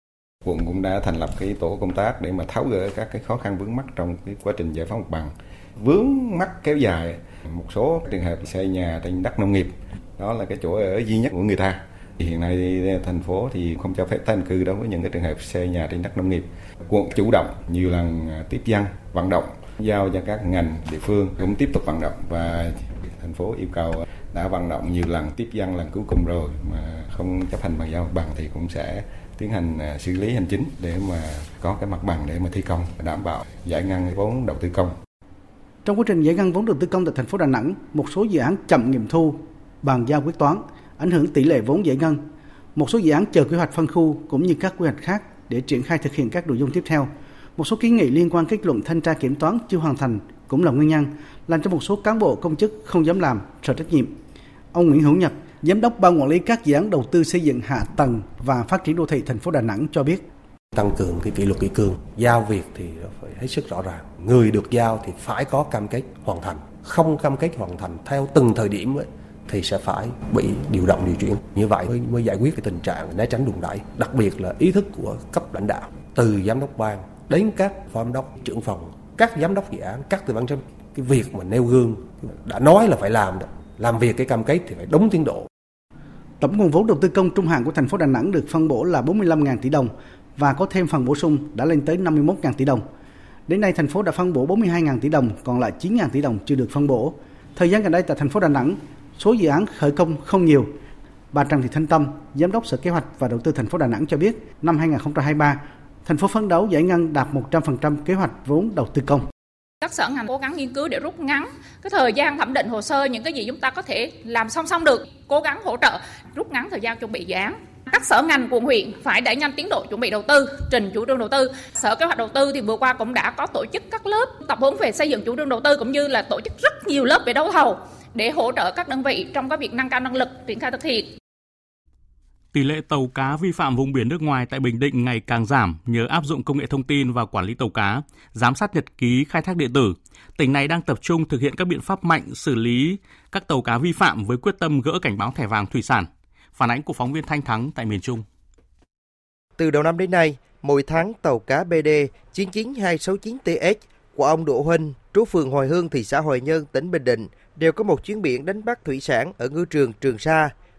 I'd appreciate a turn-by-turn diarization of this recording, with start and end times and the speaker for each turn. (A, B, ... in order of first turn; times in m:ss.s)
0:00.4-0:35.0 A
0:35.8-0:42.2 B
0:42.7-0:54.2 B
0:54.7-1:00.3 B
1:00.7-1:25.5 C
1:26.4-1:32.8 B
1:33.5-1:40.7 B
1:41.3-1:49.3 B
1:49.8-2:11.1 D
2:12.5-2:28.2 E
2:29.6-2:40.5 F